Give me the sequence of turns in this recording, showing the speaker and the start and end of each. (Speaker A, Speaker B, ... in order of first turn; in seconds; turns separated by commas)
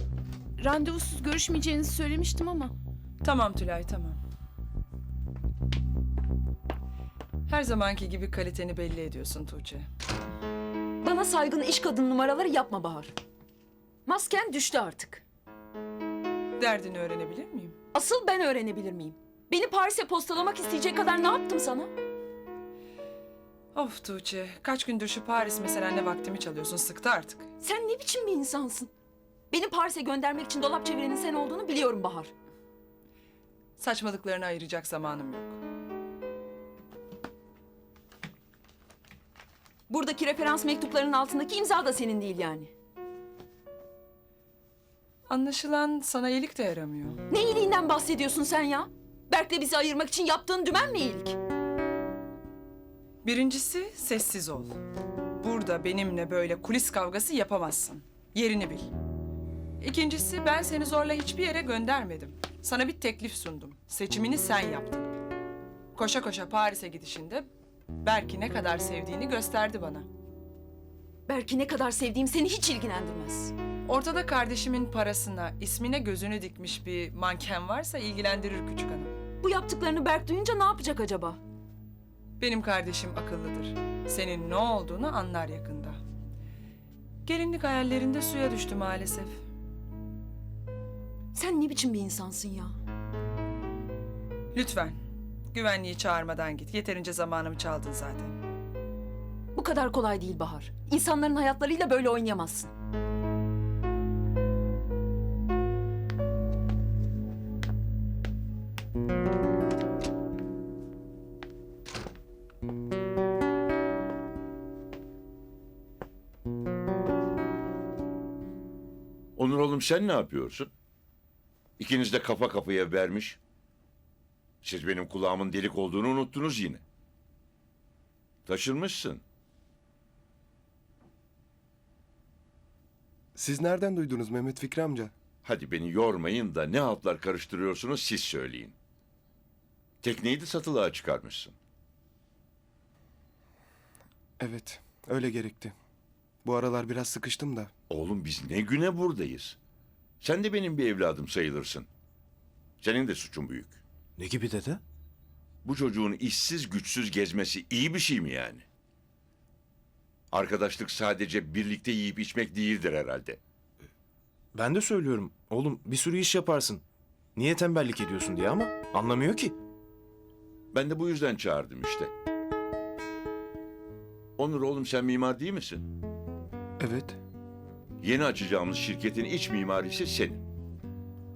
Speaker A: 0.6-2.7, Speaker B: 2.2-2.5, Speaker C: 3.2-4.2, Speaker C: 7.5-9.9, Speaker B: 11.0-13.1, Speaker B: 14.1-15.2, Speaker C: 16.6-17.8, Speaker B: 17.9-21.9, Speaker C: 23.7-27.5, Speaker B: 27.6-28.9, Speaker B: 29.5-32.3, Speaker C: 33.8-35.6, Speaker B: 39.9-42.7, Speaker C: 45.3-47.2, Speaker B: 47.3-51.4, Speaker C: 53.2-54.8, Speaker C: 55.4-58.9, Speaker C: 59.8-65.1, Speaker C: 66.0-67.5, Speaker C: 68.0-70.1, Speaker B: 71.3-73.5, Speaker C: 73.9-79.1, Speaker B: 79.4-81.4, Speaker C: 82.4-86.0, Speaker C: 87.2-89.4, Speaker B: 91.3-92.8, Speaker C: 94.5-95.0, Speaker C: 95.5-98.4, Speaker B: 99.5-102.7, Speaker D: 119.4-120.7, Speaker D: 121.8-123.4, Speaker D: 124.6-126.8, Speaker D: 128.5-129.2, Speaker E: 133.3-135.1, Speaker D: 135.4-138.8, Speaker D: 140.0-141.6, Speaker E: 144.4-145.8, Speaker E: 146.4-147.7, Speaker D: 147.9-149.6, Speaker D: 150.2-151.9, Speaker D: 152.8-153.8, Speaker F: 154.2-154.8, Speaker D: 155.6-158.7, Speaker D: 160.3-163.4, Speaker F: 164.6-166.8, Speaker F: 167.4-169.6, Speaker D: 170.7-172.1, Speaker D: 174.4-175.8, Speaker E: 176.8-177.2, Speaker D: 178.0-180.4